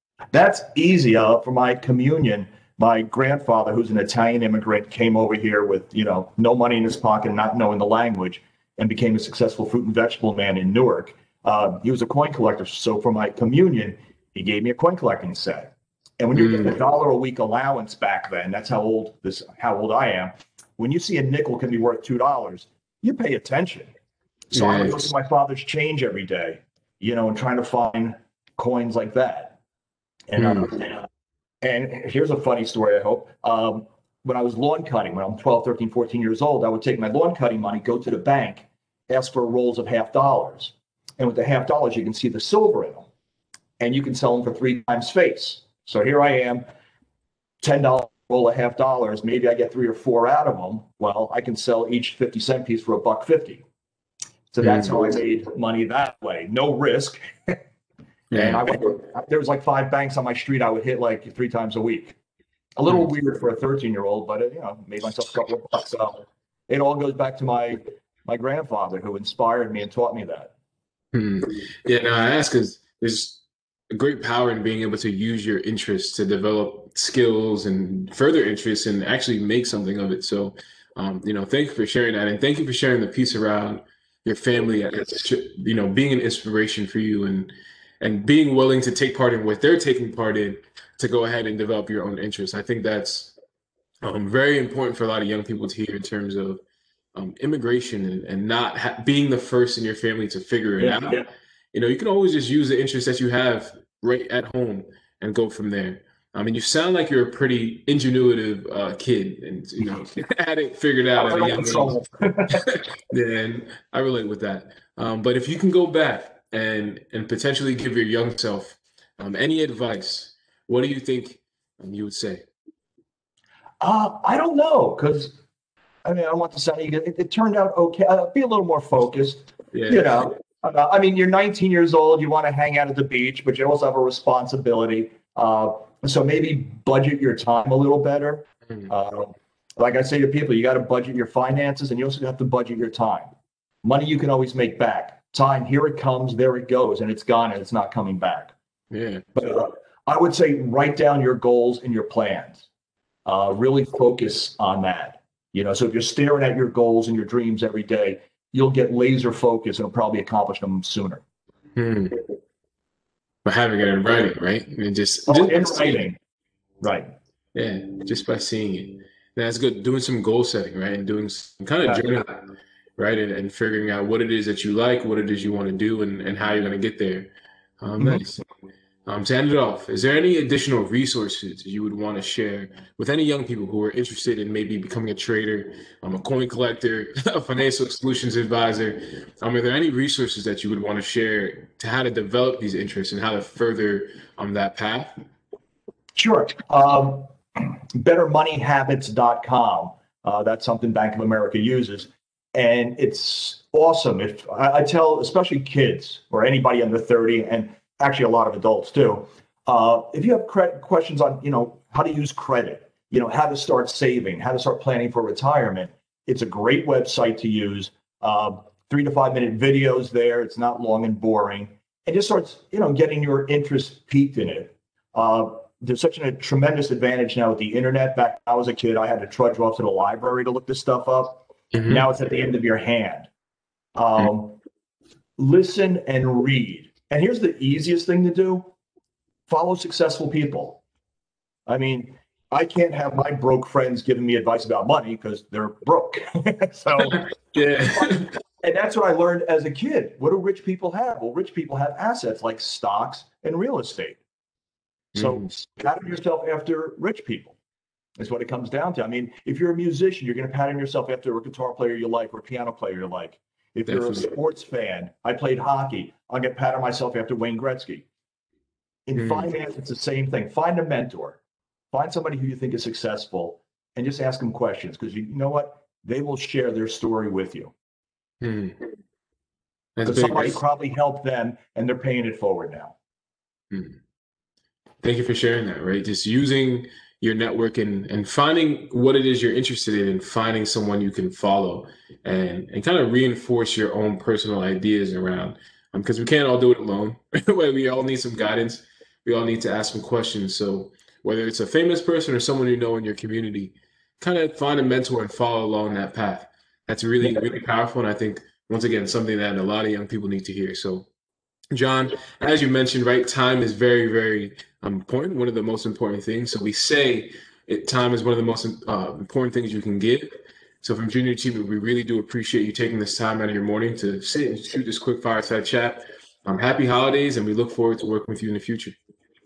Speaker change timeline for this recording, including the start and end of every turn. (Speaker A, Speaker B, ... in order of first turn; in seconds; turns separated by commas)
Speaker A: 0.3-23.9, Speaker B: 16.4-16.8, Speaker A: 24.5-29.6, Speaker B: 24.5-25.1, Speaker A: 30.3-31.1, Speaker B: 30.4-30.7, Speaker A: 31.6-43.1, Speaker A: 43.8-46.6, Speaker A: 47.6-53.6, Speaker A: 54.5-57.6, Speaker B: 54.6-54.9, Speaker B: 58.3-58.7, Speaker A: 58.3-62.2, Speaker A: 62.8-70.5, Speaker B: 71.1-93.3, Speaker B: 94.0-96.6, Speaker B: 97.2-112.0, Speaker A: 100.8-101.2, Speaker A: 111.2-112.6, Speaker B: 112.5-122.5, Speaker A: 123.8-125.4, Speaker A: 126.0-143.3, Speaker B: 129.7-130.2, Speaker A: 143.8-148.6, Speaker B: 148.9-149.2, Speaker A: 149.3-152.7, Speaker A: 153.3-161.2, Speaker B: 161.8-162.2, Speaker B: 163.4-166.0, Speaker A: 165.3-166.2, Speaker A: 166.8-167.1, Speaker B: 167.5-178.4, Speaker A: 178.0-178.3, Speaker B: 179.1-195.2, Speaker A: 196.2-233.3, Speaker B: 231.7-232.1, Speaker A: 234.0-234.6, Speaker A: 235.4-238.7, Speaker A: 239.5-240.8, Speaker A: 241.7-247.2, Speaker B: 247.1-248.3, Speaker A: 247.8-254.2, Speaker B: 255.2-255.5, Speaker A: 255.2-257.6, Speaker A: 258.2-268.1, Speaker B: 263.9-264.3, Speaker A: 269.1-271.4, Speaker B: 269.2-269.5, Speaker A: 271.9-277.7, Speaker B: 278.4-278.8, Speaker B: 280.0-280.6, Speaker A: 280.1-283.0, Speaker B: 283.7-284.0, Speaker B: 285.0-311.1, Speaker B: 311.7-328.9